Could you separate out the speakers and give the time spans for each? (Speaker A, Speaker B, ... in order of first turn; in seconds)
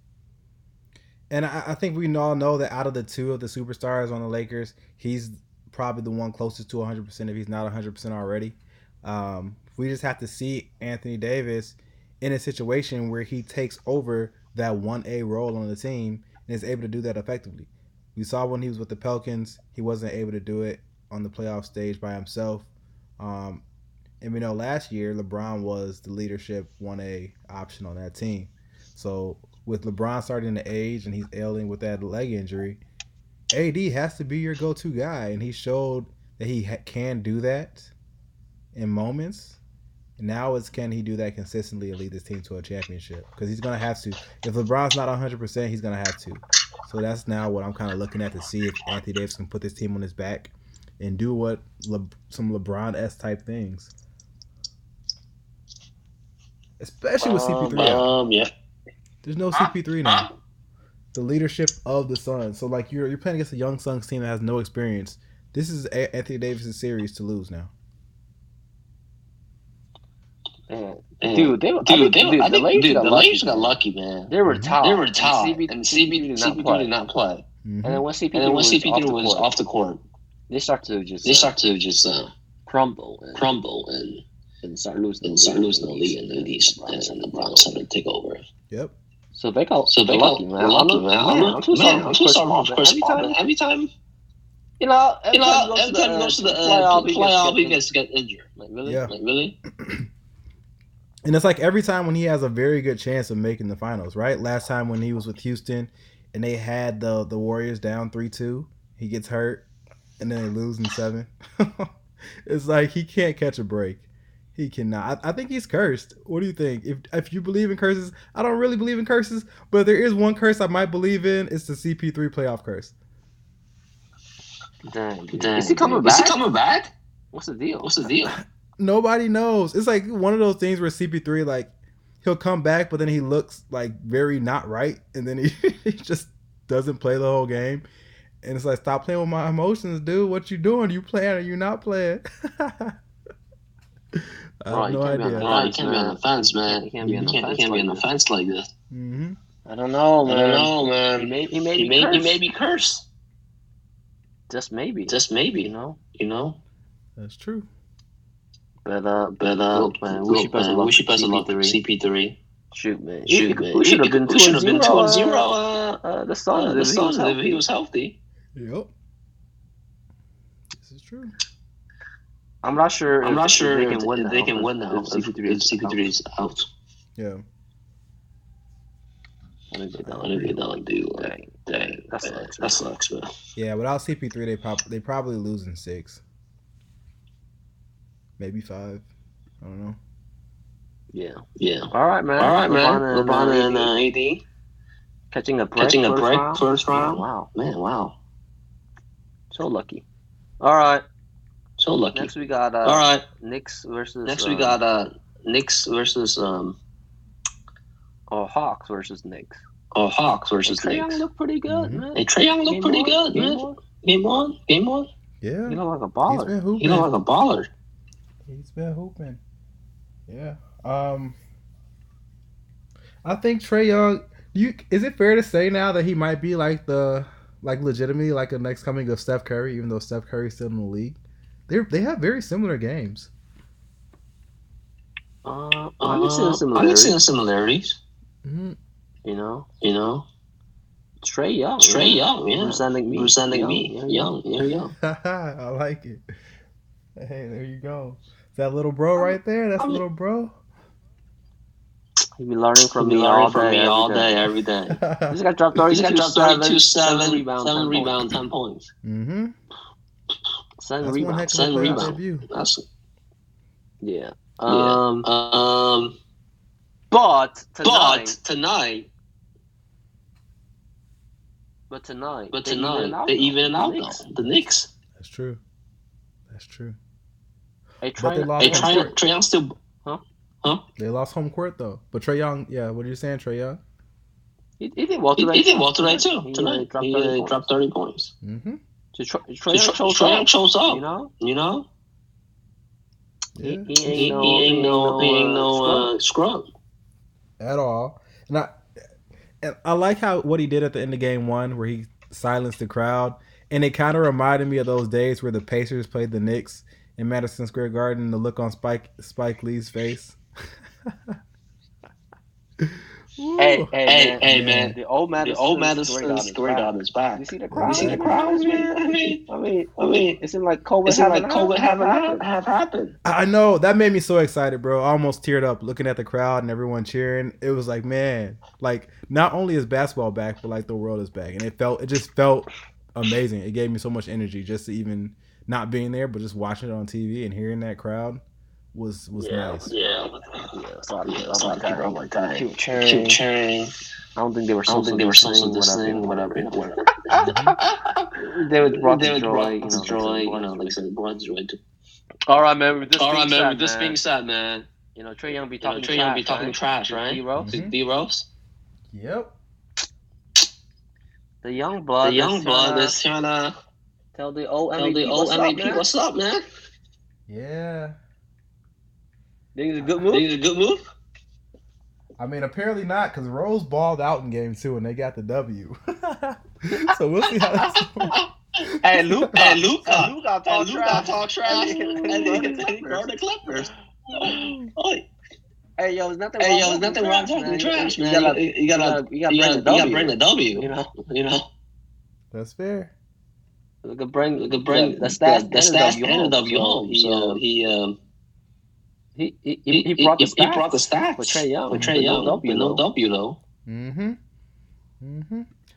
Speaker A: 1.3-23.6, 24.2-32.8, 33.5-37.9, 38.7-39.6, 40.2-53.9, 56.8-58.1, 59.2-60.3, 61.1-67.7, 74.5-74.8, 77.6-78.0, 88.7-89.0, 98.8-99.1, 99.7-100.1, 101.2-109.7, 110.2-111.9, 112.5-122.9, 128.3-131.7, 132.2-137.8, 138.4-142.9, 144.1-145.5, 147.0-147.3, 148.9-149.4, 157.2-157.7, 168.5-168.9, 170.7-171.3, 177.2-177.4, 180.1-180.5, 183.6-186.2, 188.4-189.0, 189.6-190.0, 211.7-212.0, 215.4-217.1, 218.5-219.4, 220.3-221.4, 223.2-233.3, 238.4-238.8, 245.0-246.2, 247.2-250.5, 254.9-255.4, 259.0-259.5, 261.0-262.5, 275.1-275.6, 276.5-277.0, 278.2-279.1, 281.0-283.8, 288.4-288.8, 293.6-293.9, 297.6-298.8, 299.6-310.4, 311.1-311.3, 312.8-314.9, 317.7-318.4, 323.2-338.4, 338.9-339.9, 347.4-347.8, 357.6-357.9, 359.1-359.5, 367.5-368.1, 372.4-378.4, 384.4-384.9, 392.5-393.1, 403.9-404.4, 405.2-405.7
Speaker B: 57.2-58.5, 59.5-60.3, 71.2-77.4, 78.3-80.0, 81.2-82.3, 83.3-84.2, 85.2-88.4, 89.9-93.9, 95.3-99.6, 125.3-126.9, 127.8-128.3, 145.4-148.7, 150.2-153.0, 155.1-156.6, 159.4-162.4, 163.3-166.0, 166.5-168.2, 173.2-176.7, 180.0-183.3, 191.6-194.4, 195.8-198.2, 201.8-202.3, 202.8-203.2, 204.2-206.8, 209.9-211.2, 212.1-215.1, 216.7-217.7, 236.0-238.0, 239.8-240.3, 241.8-244.9, 252.9-255.0, 255.9-258.9, 261.5-262.8, 264.6-266.2, 267.8-269.1, 272.5-274.9, 278.6-279.7, 285.4-288.3, 289.7-291.9, 294.1-296.7, 314.1-319.4, 320.0-320.4, 321.1-323.1, 339.8-340.7, 341.2-343.9, 344.9-351.8, 353.1-354.9, 355.8-358.4, 362.2-363.7, 364.9-366.6, 370.3-371.0, 378.0-378.4, 379.5-385.2, 386.6-391.7, 394.6-398.2, 399.9-403.6
Speaker C: 70.7-73.8, 74.3-76.9, 77.8-79.5, 80.5-81.5, 82.7-83.4, 84.6-87.7, 89.3-93.4, 94.8-97.8, 98.6-99.1, 124.8-126.4, 127.3-127.9, 144.7-148.0, 149.7-152.4, 154.5-156.0, 158.8-161.8, 162.7-165.5, 166.0-167.6, 172.6-176.1, 179.7-180.5, 181.2-182.7, 191.1-193.9, 195.3-197.5, 199.5-200.0, 200.6-201.0, 202.1-204.8, 208.3-209.6, 210.7-213.8, 215.7-216.6, 235.4-237.2, 239.2-239.7, 241.2-244.3, 252.4-254.3, 255.3-258.2, 260.8-262.1, 264.0-265.2, 267.1-268.4, 271.9-274.2, 278.0-279.1, 284.8-287.6, 289.1-291.3, 293.6-296.1, 313.6-322.4, 339.4-339.8, 340.7-343.4, 344.4-346.6, 347.3-347.7, 348.4-351.0, 352.5-354.2, 355.1-357.7, 361.6-363.1, 364.3-366.0, 369.7-370.5, 379.0-383.3, 386.0-391.1, 394.0-397.6, 399.4-403.1